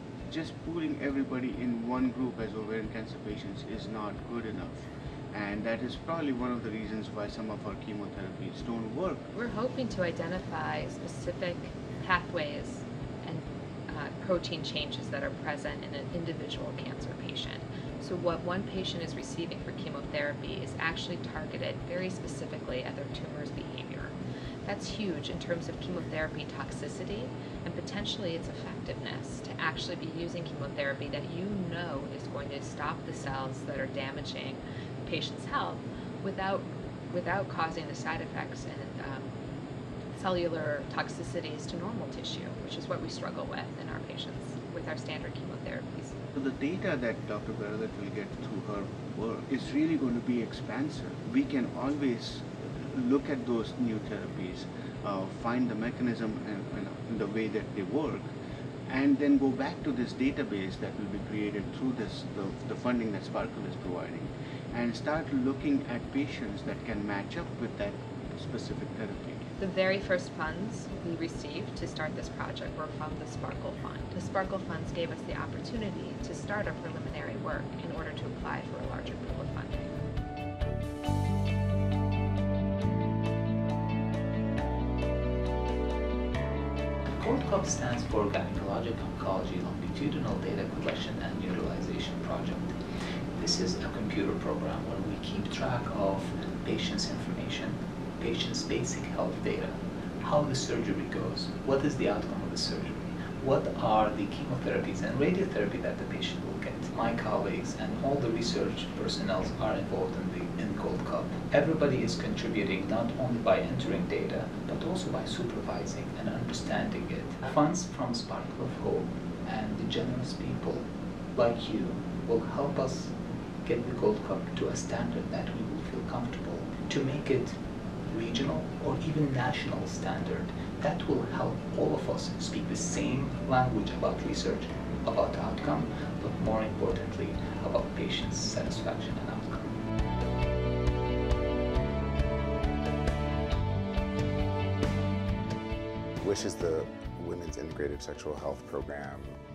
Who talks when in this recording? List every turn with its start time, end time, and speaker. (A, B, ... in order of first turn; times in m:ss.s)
0:00.3-0:09.3 A
0:09.3-0:39.4 B
0:40.1-0:46.2 B
0:46.3-0:58.3 A
0:58.9-1:09.5 A
1:09.6-1:19.9 B
1:27.2-1:32.7 C
1:33.4-2:03.1 C
2:03.6-2:07.6 C
2:08.1-2:19.8 C
2:26.2-2:29.4 D